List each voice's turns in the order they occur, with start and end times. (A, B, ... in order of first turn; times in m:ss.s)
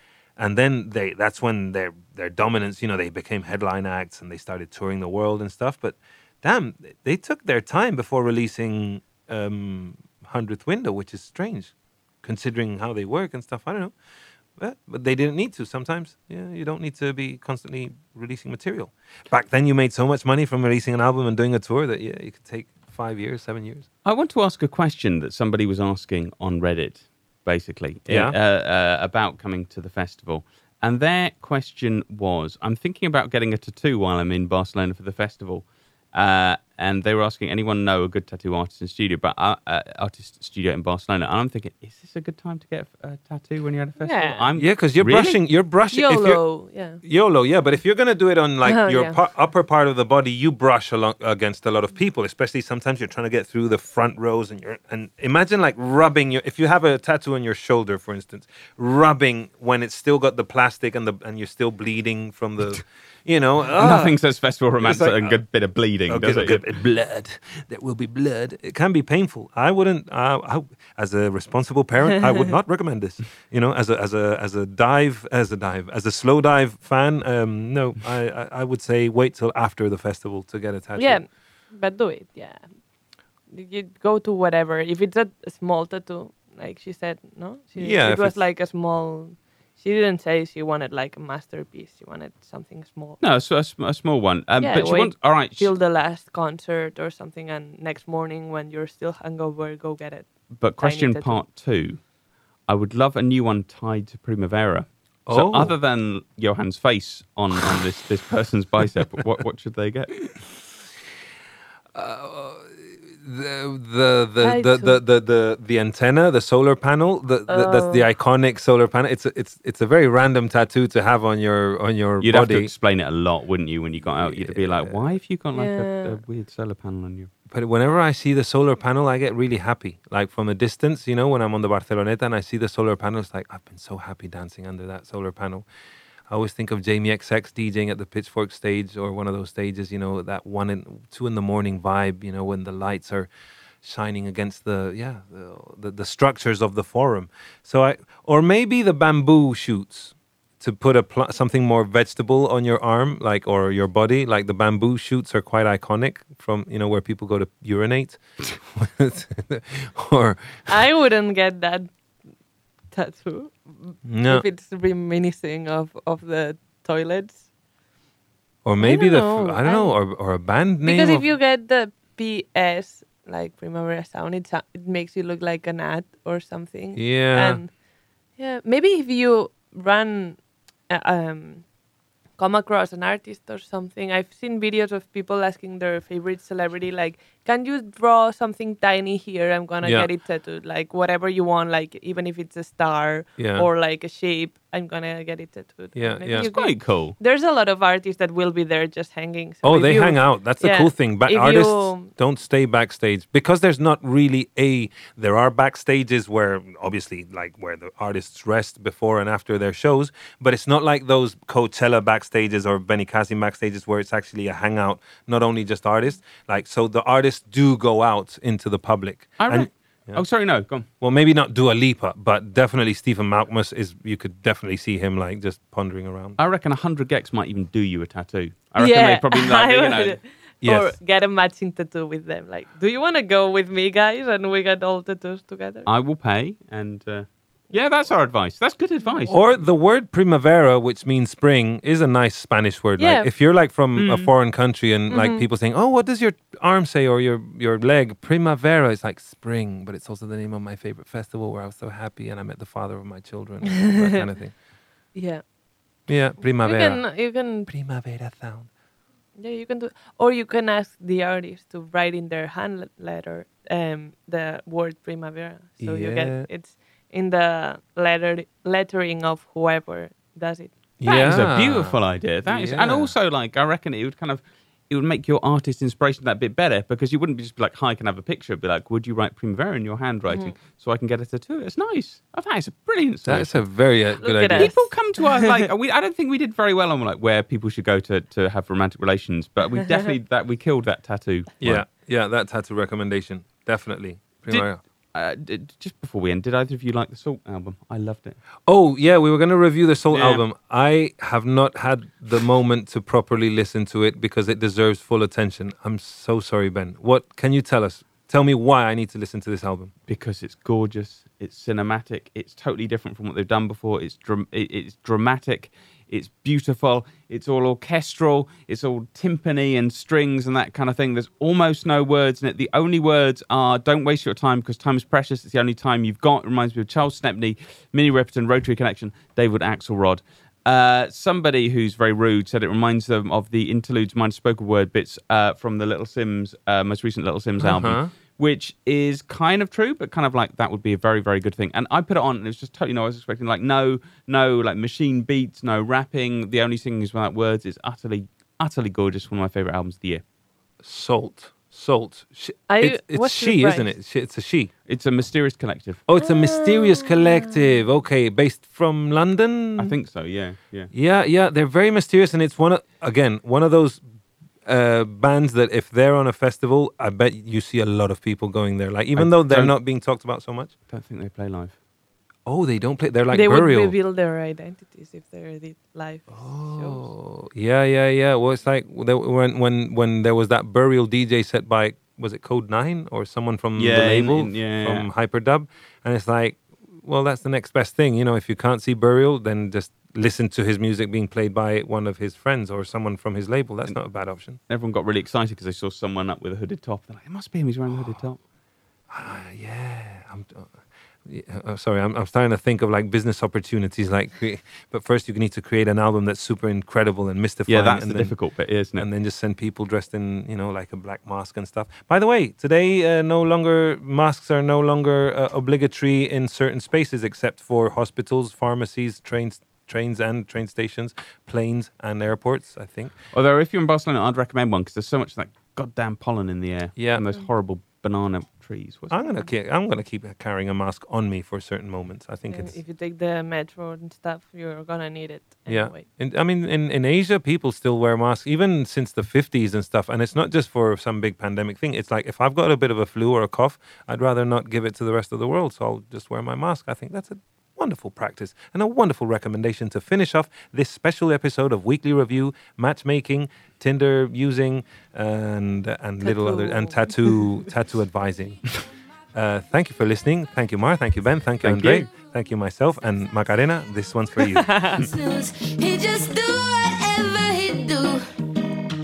0:00.4-0:13.9 A
0:14.6-0:23.9 A
0:24.0-0:45.4 B
0:28.1-0:28.4 A
0:44.0-0:44.4 C
0:44.5-0:46.4 A
0:45.9-0:47.0 C
0:47.0-1:04.2 A
0:48.6-0:49.2 C
1:03.7-1:06.6 B
1:04.8-1:05.4 A
1:06.1-1:21.2 A
1:21.0-1:22.7 C
1:23.5-1:33.2 C
1:27.8-1:28.4 A
1:33.2-1:35.7 B
1:34.6-1:41.4 C
1:40.5-1:42.0 B
1:42.7-1:50.3 B
1:45.3-1:45.7 A
1:51.9-2:02.7 A
1:54.4-1:55.0 C
1:57.5-1:58.0 C
2:02.2-2:07.3 B
2:04.0-2:05.1 A
2:05.5-2:06.2 C
2:07.5-2:15.7 A
2:16.3-2:23.3 A
2:23.8-2:40.7 A
2:40.7-2:41.9 C
2:42.9-2:47.4 C
2:44.0-2:44.4 A
2:48.6-2:51.3 A
2:48.8-2:49.9 C
2:50.8-2:57.7 C
2:56.9-2:57.6 A
2:58.4-3:01.6 C
3:02.4-3:22.1 C
3:09.8-3:10.1 A
3:13.4-3:13.7 A
3:15.9-3:16.5 A
3:16.3-3:17.1 B
3:19.6-3:40.2 A
3:39.4-3:40.9 B
3:41.0-3:46.4 A
3:46.4-3:50.2 B
3:48.8-3:55.9 C
3:50.6-3:51.0 A
3:55.8-3:59.4 B
3:59.3-4:14.5 A
4:03.0-4:03.3 C
4:04.0-4:04.3 B
4:05.1-4:05.4 C
4:13.7-4:14.2 C
4:15.1-4:15.4 C
4:16.1-4:18.7 A
4:16.5-4:17.7 C
4:19.4-4:31.4 C
4:25.8-4:26.5 A
4:31.0-4:33.1 A
4:31.2-4:43.6 B
4:40.3-4:40.5 C
4:43.2-4:44.8 A
4:44.2-4:44.8 C
4:44.5-4:51.8 B
4:51.6-4:54.8 A
4:55.1-4:58.4 B
4:58.7-5:09.9 A
5:00.1-5:00.4 B
5:10.1-5:50.2 B
5:37.6-5:38.1 A
5:50.8-5:54.7 A
5:52.7-5:53.9 C
5:54.8-5:56.0 B
5:56.1-6:00.0 A
5:56.2-5:57.5 C
5:59.8-6:00.9 B
6:00.9-6:04.0 A
6:04.6-6:10.7 A
6:09.2-6:09.7 B
6:10.9-6:11.8 B
6:12.4-6:13.9 A
6:13.3-6:17.0 C
6:16.3-6:34.6 A
6:23.8-6:25.1 B
6:34.7-6:38.4 B
6:39.1-6:40.7 A
6:41.2-6:48.3 A
6:47.7-6:49.1 B
6:49.0-7:03.1 A
7:03.3-7:09.2 B
7:07.0-7:07.2 A
7:09.1-7:12.8 A
7:12.5-7:16.0 C
7:15.7-7:38.7 A
7:36.2-7:37.3 C
7:39.3-7:44.8 A
7:41.6-7:42.1 B
7:44.6-7:45.1 C
7:45.0-7:48.2 D